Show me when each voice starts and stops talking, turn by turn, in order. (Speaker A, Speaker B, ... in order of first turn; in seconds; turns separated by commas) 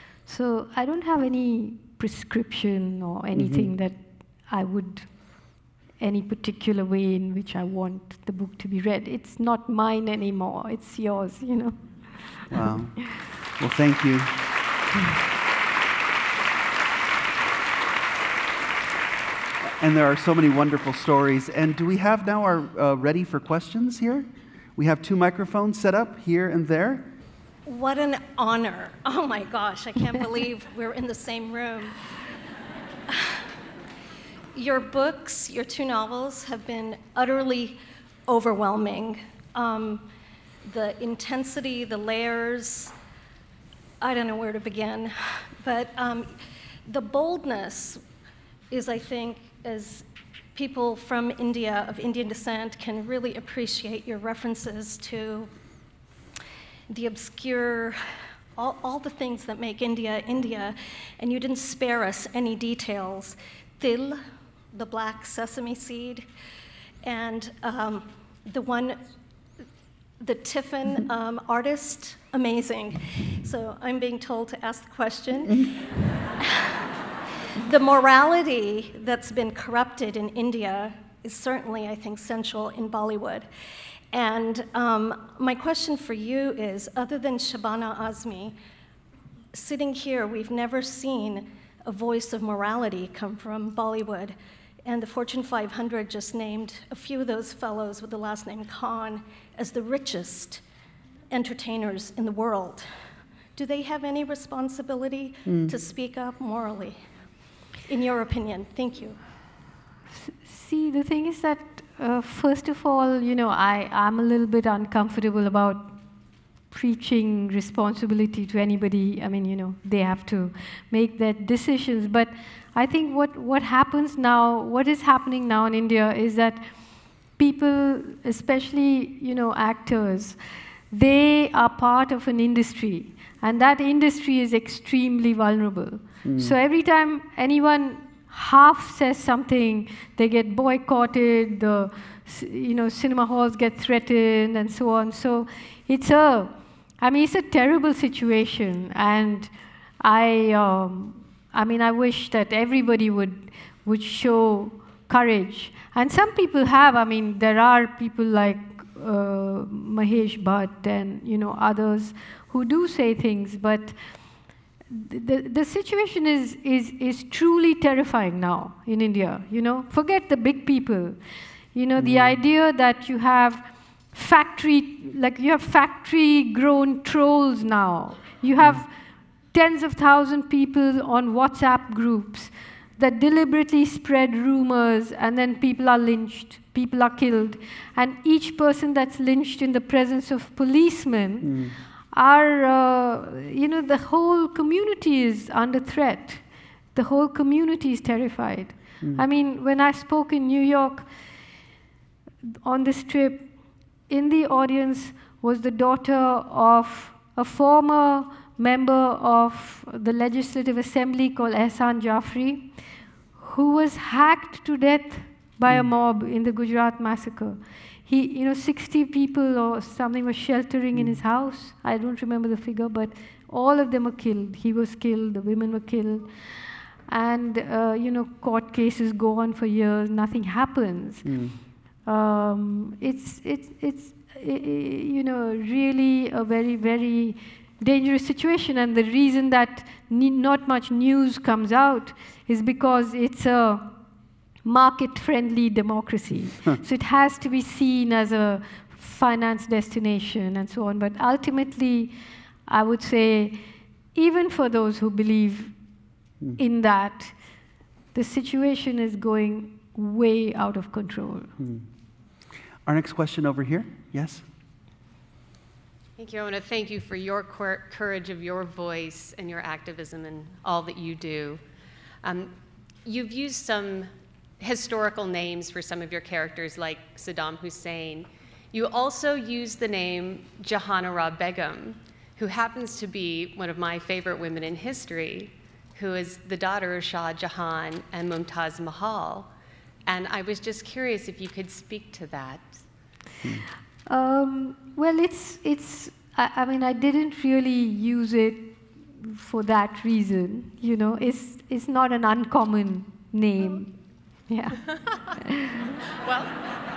Speaker A: 0.2-12.4, Speaker B: 3.3-3.7, Speaker B: 12.5-14.4, Speaker B: 19.6-27.1, Speaker C: 27.6-31.9, Speaker C: 34.5-40.1, Speaker C: 40.6-42.9, Speaker C: 44.0-46.3, Speaker C: 46.9-48.0, Speaker C: 48.7-55.5, Speaker C: 56.9-58.0, Speaker C: 58.5-64.2, Speaker C: 64.7-66.3, Speaker C: 67.0-69.1, Speaker C: 70.2-75.7, Speaker C: 77.6-83.5, Speaker C: 84.1-88.5, Speaker C: 89.5-100.6, Speaker C: 101.3-102.9, Speaker C: 103.5-107.0, Speaker B: 105.5-105.8, Speaker C: 107.8-109.2, Speaker A: 110.3-115.9, Speaker A: 116.7-126.7, Speaker A: 127.4-130.4, Speaker A: 130.9-163.9, Speaker B: 136.2-136.6, Speaker A: 164.9-171.2, Speaker A: 171.7-178.9, Speaker B: 172.0-172.4, Speaker A: 179.5-191.5, Speaker B: 191.4-191.8, Speaker A: 192.1-201.1, Speaker A: 202.4-203.5, Speaker A: 204.1-212.7, Speaker A: 213.4-226.3, Speaker B: 220.9-221.2, Speaker A: 227.1-231.3, Speaker B: 231.2-231.6, Speaker A: 232.0-243.9, Speaker A: 244.6-252.1, Speaker A: 252.7-253.6, Speaker A: 254.1-255.7, Speaker A: 256.6-257.3, Speaker A: 258.1-261.5, Speaker B: 261.6-261.9, Speaker B: 262.9-264.4, Speaker D: 266.2-271.6, Speaker D: 272.2-289.5, Speaker D: 290.0-292.8, Speaker A: 294.1-304.9, Speaker D: 305.7-306.6